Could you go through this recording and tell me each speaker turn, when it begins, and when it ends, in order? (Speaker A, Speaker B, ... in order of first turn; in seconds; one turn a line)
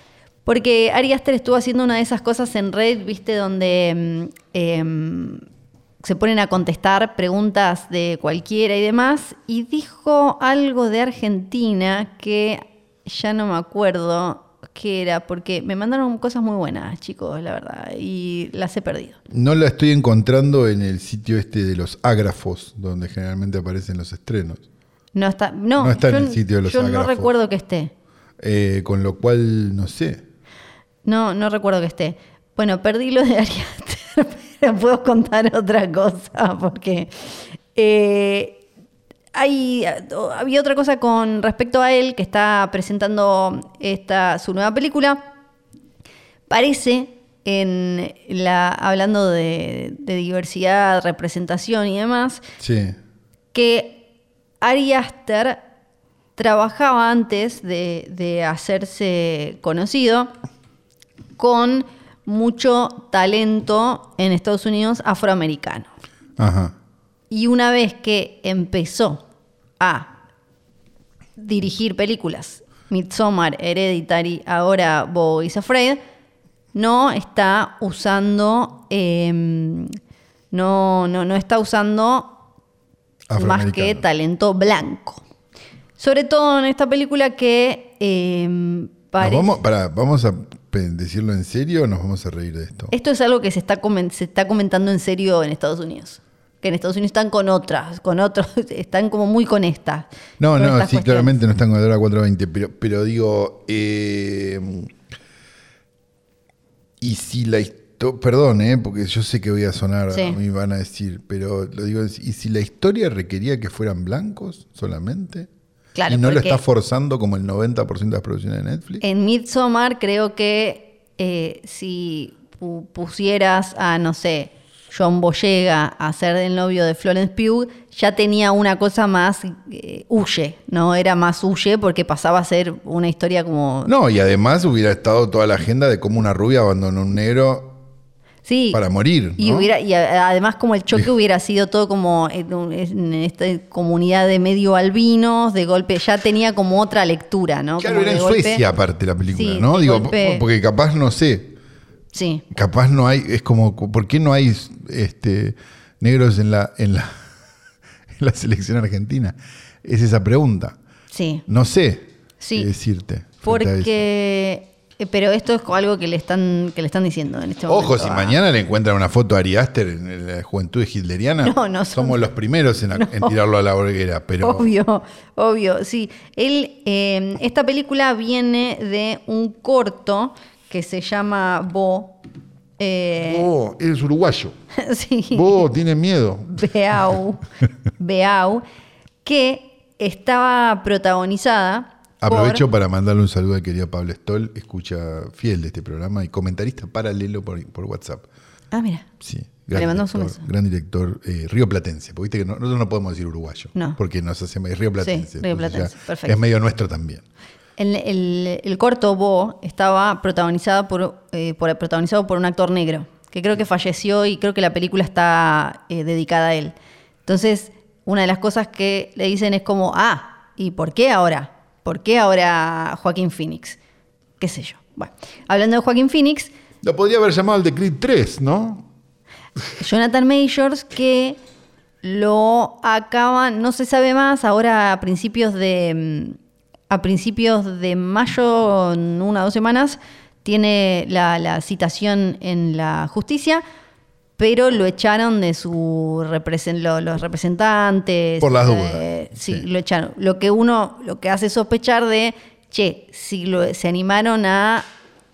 Speaker A: 0.5-5.4
Speaker A: 6.0-19.2
Speaker B: 19.3-24.6
Speaker A: 25.1-27.9
Speaker B: 25.8-27.3
Speaker B: 28.4-30.2
Speaker A: 31.1-38.6
Speaker A: 39.3-45.2
Speaker A: 46.5-52.4
Speaker B: 52.6-53.0
Speaker A: 53.5-54.0
Speaker A: 54.6-55.6
Speaker A: 56.4-60.3
Speaker A: 61.4-65.9
Speaker B: 66.4-66.7
Speaker A: 67.3-69.2
Speaker A: 69.8-70.2
Speaker A: 71.4-76.0
Speaker A: 76.7-80.0
Speaker A: 80.5-82.4
Speaker B: 83.3-84.0
Speaker A: 83.4-85.2
Speaker A: 86.0-89.6
Speaker B: 89.2-92.9
Speaker A: 92.9-101.3
Speaker B: 100.4-104.9
Speaker B: 107.0-115.5
Speaker A: 110.1-110.4
Speaker A: 116.0-116.6
Speaker B: 116.1-119.0
Speaker A: 119.0-133.9
Speaker B: 133.9-137.8
Speaker A: 138.4-138.8
Speaker B: 138.7-139.7
Speaker A: 139.4-148.6
Speaker B: 147.8-151.6
Speaker A: 149.3-150.4
Speaker A: 152.1-152.4
Speaker B: 152.5-157.1
Speaker B: 158.2-160.8
Speaker A: 161.1-161.4
Speaker B: 161.5-163.9
Speaker A: 162.4-162.7
Speaker A: 163.4-168.4
Speaker B: 167.7-174.7
Speaker A: 171.4-172.2
Speaker A: 172.9-173.3
Speaker A: 174.4-182.2
Speaker A: 182.8-183.5
Speaker B: 183.2-184.5
Speaker A: 184.8-185.7
Speaker B: 185.3-186.6
Speaker A: 186.4-188.6
Speaker A: 189.2-192.6
Speaker B: 192.2-198.3
Speaker A: 198.7-199.1
Speaker B: 199.2-207.2
Speaker A: 199.7-200.4
Speaker A: 205.0-206.4
Speaker A: 207.8-216.8
Speaker A: 217.3-223.8
Speaker A: 224.4-226.5
Speaker B: 226.8-228.9
Speaker A: 229.8-231.4
Speaker A: 232.0-236.4
Speaker A: 236.9-243.6
Speaker A: 244.4-254.9
Speaker B: 248.4-249.7